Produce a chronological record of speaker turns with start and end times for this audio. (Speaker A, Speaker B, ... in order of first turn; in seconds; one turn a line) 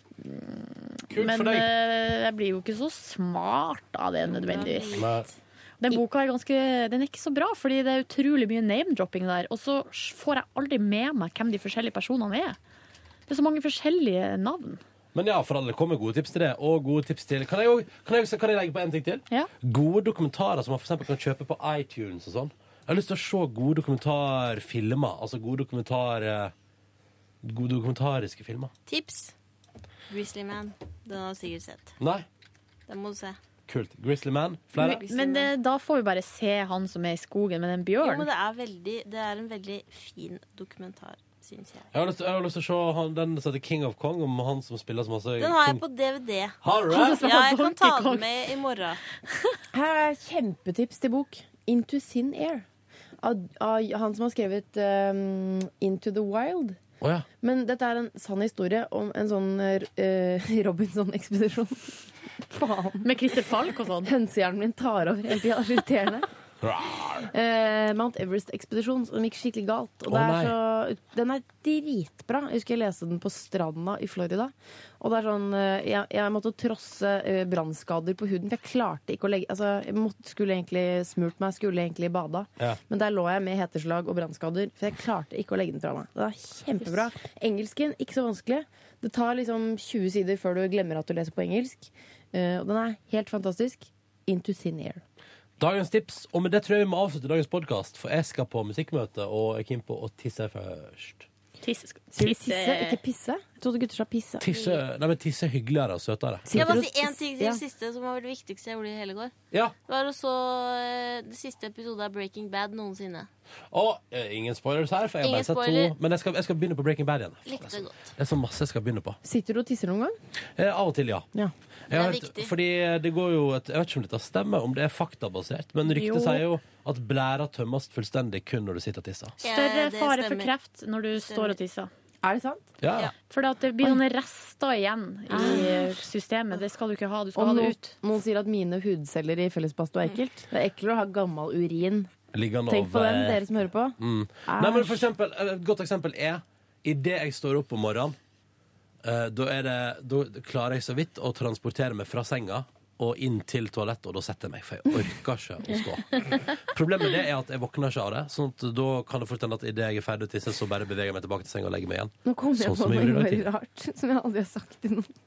Speaker A: 0.2-4.9
Speaker B: 1.1-1.7
Speaker C: 4.2-5.3
Speaker B: 4.9-5.3
Speaker A: 5.8-12.6
Speaker A: 13.3-14.8
Speaker B: 15.1-26.5
Speaker B: 27.4-28.7
Speaker C: 28.9-29.3
Speaker C: 30.1-31.9
Speaker B: 32.0-32.2
Speaker C: 32.9-33.4
Speaker B: 33.7-35.1
Speaker C: 34.8-35.5
Speaker A: 34.8-38.3
Speaker C: 38.0-41.9
Speaker B: 41.9-45.8
Speaker C: 45.4-49.0
Speaker B: 46.6-47.2
Speaker A: 46.9-48.3
Speaker D: 49.7-52.6
Speaker D: 53.2-56.8
Speaker B: 57.0-57.2
Speaker D: 57.4-63.1
Speaker A: 63.0-64.1
Speaker D: 64.0-66.2
Speaker B: 66.6-67.3
Speaker D: 67.3-95.0
Speaker B: 70.1-70.5
Speaker B: 95.6-101.3
Speaker A: 101.6-103.0
Speaker D: 102.1-104.5
Speaker B: 104.4-106.8
Speaker C: 104.5-104.8
Speaker D: 106.5-107.6
Speaker C: 106.5-109.3
Speaker C: 109.8-113.3
Speaker B: 113.7-119.2
Speaker C: 115.2-115.9
Speaker C: 117.5-117.9
Speaker D: 119.2-120.2
Speaker B: 120.6-121.3
Speaker B: 121.9-129.4
Speaker C: 121.9-122.5
Speaker A: 125.9-126.4
Speaker C: 129.4-130.5
Speaker A: 129.4-131.9
Speaker C: 131.1-131.6
Speaker D: 132.2-132.7
Speaker B: 132.8-133.1
Speaker A: 133.3-137.9
Speaker D: 135.3-135.9
Speaker D: 137.3-142.1
Speaker B: 142.3-148.2
Speaker D: 142.7-145.1
Speaker B: 149.0-163.4
Speaker D: 162.2-165.1